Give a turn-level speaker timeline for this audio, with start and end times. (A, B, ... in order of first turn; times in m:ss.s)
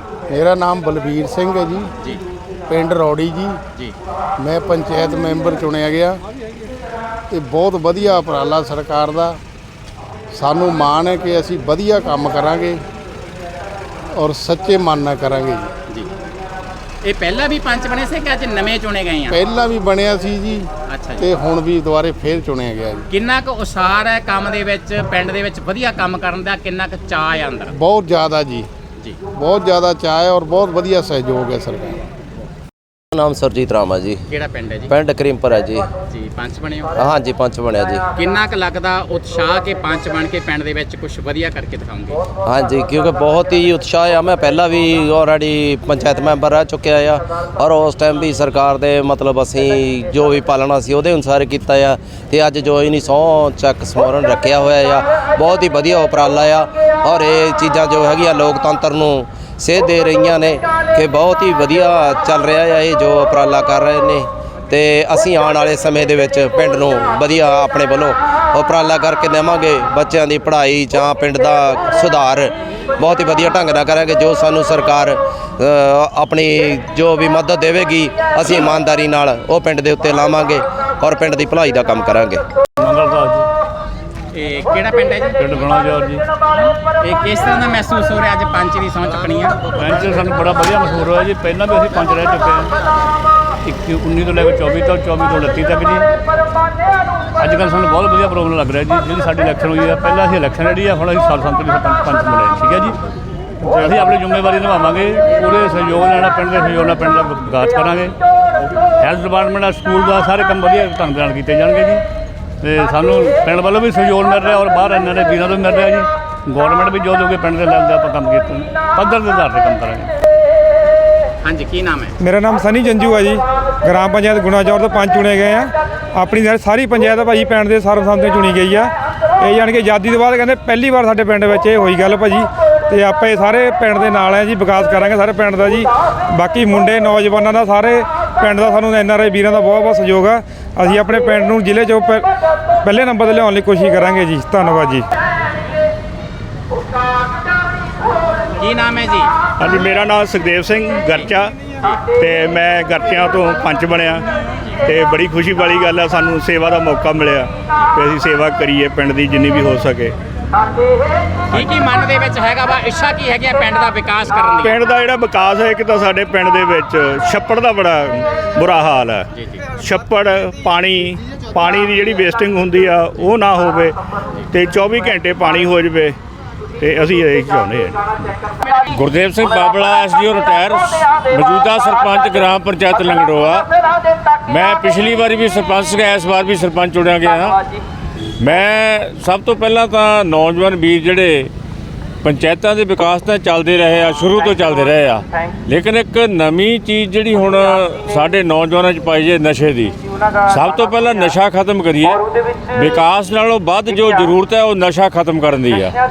0:00.3-0:01.9 A
0:02.7-0:03.6 A
0:04.4-0:06.2 A
0:07.3-0:09.4 A
0:10.3-0:12.8 A
0:14.1-0:15.7 A
0:17.0-0:19.4 B
0:19.3-0:20.7 A
0:20.9-0:21.3 B
0:21.2-0:23.1 A
0:23.1-0:27.7 B
0:27.7-0:28.7 A
0:29.3-0:32.0 A
0:33.1-0:34.2 C
0:34.3-0:35.0 B
0:34.9-0:35.9 C
0:36.1-0:36.9 B
0:37.0-0:38.0 C
0:38.2-0:42.2 B
0:42.5-1:22.4 C
1:22.8-1:23.5 D
1:24.3-1:25.8 B
1:25.4-1:26.2 D
1:26.6-1:29.7 B
1:29.7-1:32.7 D
1:33.6-1:36.1 D
1:37.4-1:43.0 D
1:43.6-1:48.2 D
1:49.0-1:52.0 D
1:52.6-2:00.1 D
2:01.4-2:02.2 B
2:02.2-2:08.9 E
2:09.4-2:22.3 E
2:22.8-2:25.0 E
2:28.6-2:29.3 B
2:29.6-2:31.6 F
2:31.1-2:32.0 B
2:32.1-2:34.3 F
2:34.8-2:40.2 F
2:41.5-2:44.8 B
2:44.6-2:56.2 F
2:49.3-2:49.6 B
2:56.8-2:58.4 F
2:58.8-3:03.7 G
3:04.5-3:07.6 G
3:08.4-3:11.5 G
3:12.2-3:25.9 G